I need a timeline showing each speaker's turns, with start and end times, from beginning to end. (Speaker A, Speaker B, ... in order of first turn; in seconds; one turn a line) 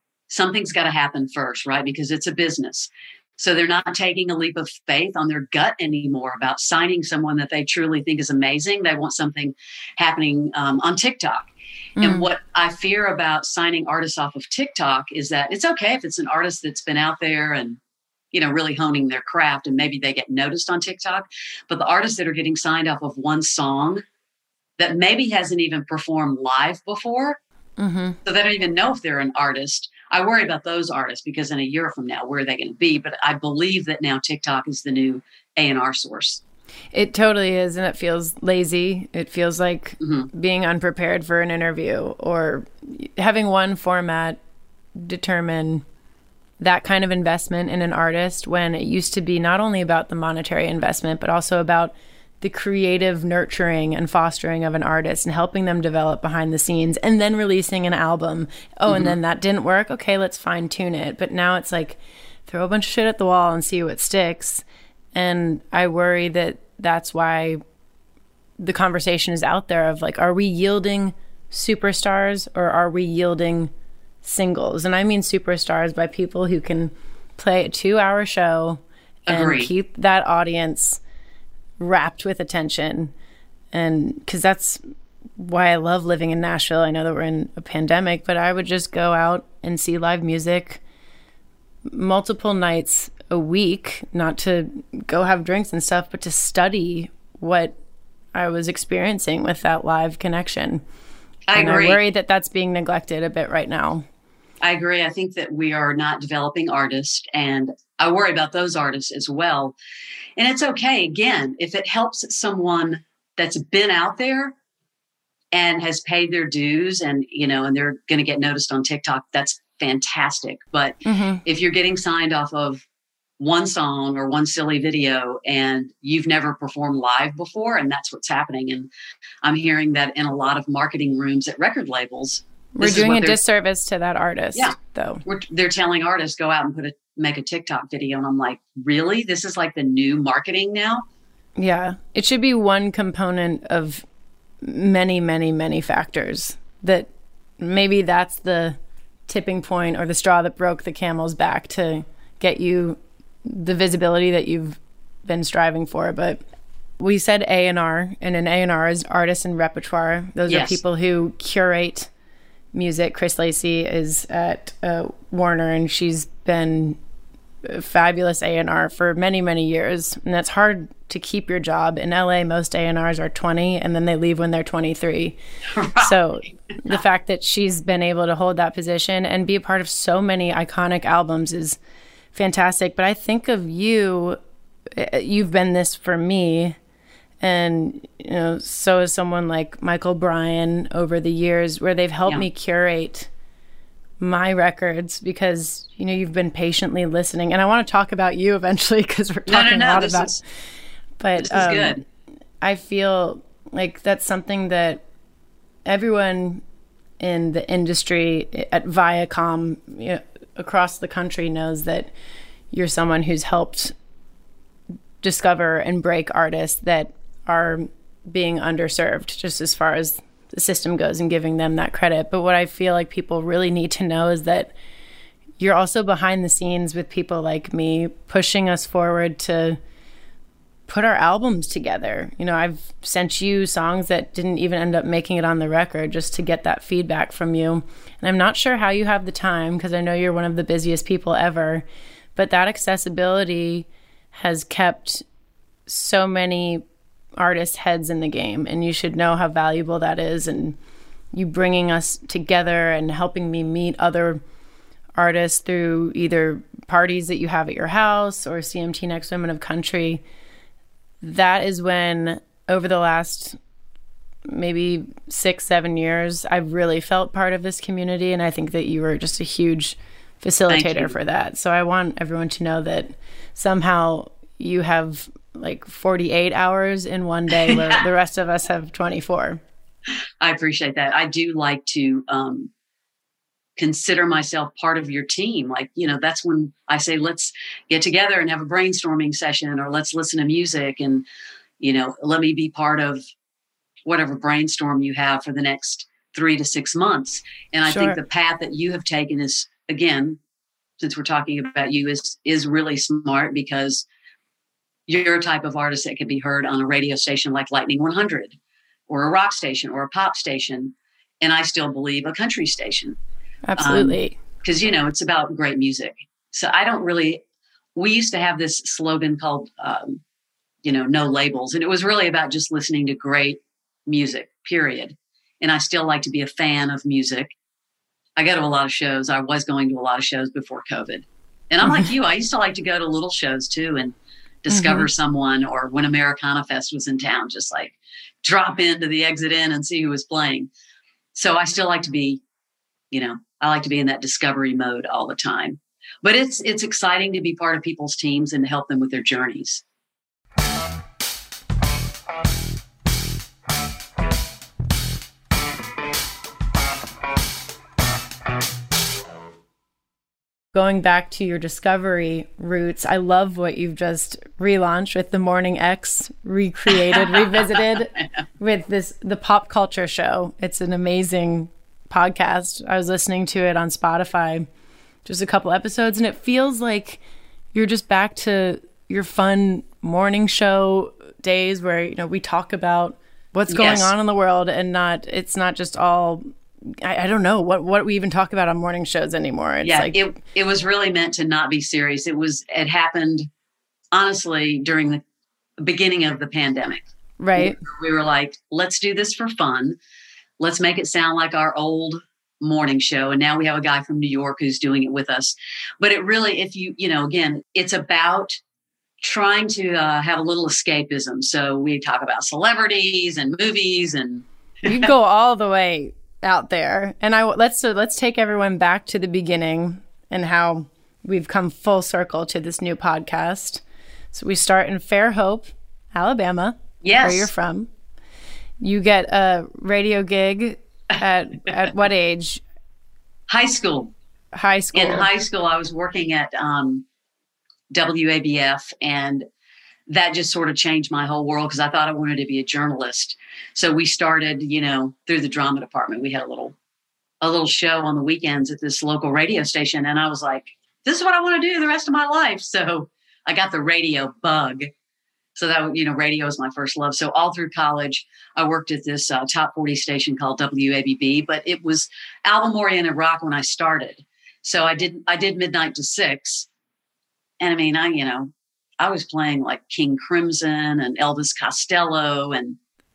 Speaker A: 0.3-17.8
Speaker B: 12.0-12.3
Speaker A: 18.3-24.0
Speaker A: 24.8-27.4
Speaker B: 27.8-28.2
Speaker A: 28.2-36.4
Speaker B: 36.9-44.4
Speaker A: 40.0-40.3
Speaker B: 44.9-45.8
Speaker B: 46.6-67.6
Speaker A: 58.9-59.1
Speaker B: 68.6-73.7
Speaker B: 74.2-81.0
Speaker A: 79.3-79.7
Speaker B: 81.8-83.1
Speaker B: 83.7-84.8
Speaker B: 85.4-90.8
Speaker B: 91.9-97.7
Speaker B: 98.3-100.8
Speaker A: 101.5-102.0
Speaker B: 101.5-104.0
Speaker A: 104.6-109.7
Speaker A: 110.4-114.5
Speaker A: 115.5-122.8
Speaker B: 121.0-121.4
Speaker A: 123.4-128.9
Speaker A: 129.4-133.4
Speaker B: 132.7-135.2
Speaker A: 134.6-141.0
Speaker B: 141.6-144.0
Speaker B: 144.6-147.1
Speaker B: 147.6-148.8
Speaker B: 149.3-156.4
Speaker B: 157.0-162.1
Speaker A: 160.5-160.8
Speaker B: 162.7-167.0
Speaker B: 167.6-175.3
Speaker A: 175.7-176.1
Speaker B: 176.0-181.8
Speaker B: 182.3-184.4
Speaker B: 184.9-186.8
Speaker B: 187.4-193.3
Speaker B: 194.2-200.4
Speaker A: 199.5-200.4
Speaker B: 201.2-202.0
Speaker A: 201.4-202.0
Speaker B: 202.6-205.0
Speaker B: 205.8-206.6
Speaker B: 207.2-212.1
Speaker B: 212.7-213.9
Speaker B: 215.2-224.7
Speaker B: 225.6-229.8
Speaker B: 230.9-241.8
Speaker B: 242.3-245.2
Speaker B: 245.9-246.8
Speaker B: 247.4-250.8
Speaker B: 251.3-254.4
Speaker B: 255.2-260.2
Speaker B: 261.2-263.6
Speaker B: 264.5-279.6
Speaker A: 270.7-271.1
Speaker A: 277.7-278.0
Speaker A: 280.4-282.7
Speaker A: 283.8-291.2
Speaker A: 291.8-293.2
Speaker A: 294.0-300.4
Speaker B: 297.9-298.2
Speaker A: 301.0-304.1
Speaker A: 305.1-308.6
Speaker A: 309.1-313.2
Speaker B: 313.7-314.4
Speaker A: 313.8-317.4
Speaker A: 317.9-320.2
Speaker A: 320.8-327.5
Speaker A: 328.4-340.7
Speaker B: 334.7-335.1
Speaker A: 341.3-342.4
Speaker A: 343.1-349.8
Speaker B: 360.7-374.7
Speaker A: 366.9-368.3
Speaker B: 375.2-377.2
Speaker B: 377.7-390.3
Speaker A: 383.7-384.1
Speaker A: 389.8-393.5
Speaker A: 394.1-395.2
Speaker A: 395.8-397.0
Speaker B: 397.4-397.8
Speaker A: 397.6-400.0
Speaker A: 400.6-408.6
Speaker A: 409.2-415.1
Speaker B: 414.8-427.9
Speaker A: 427.0-427.5
Speaker B: 428.8-432.6
Speaker A: 433.5-434.1
Speaker B: 434.5-435.3
Speaker A: 434.9-437.0
Speaker A: 437.9-439.5
Speaker A: 440.1-446.8
Speaker A: 447.4-454.9
Speaker A: 455.5-466.7
Speaker A: 467.6-472.8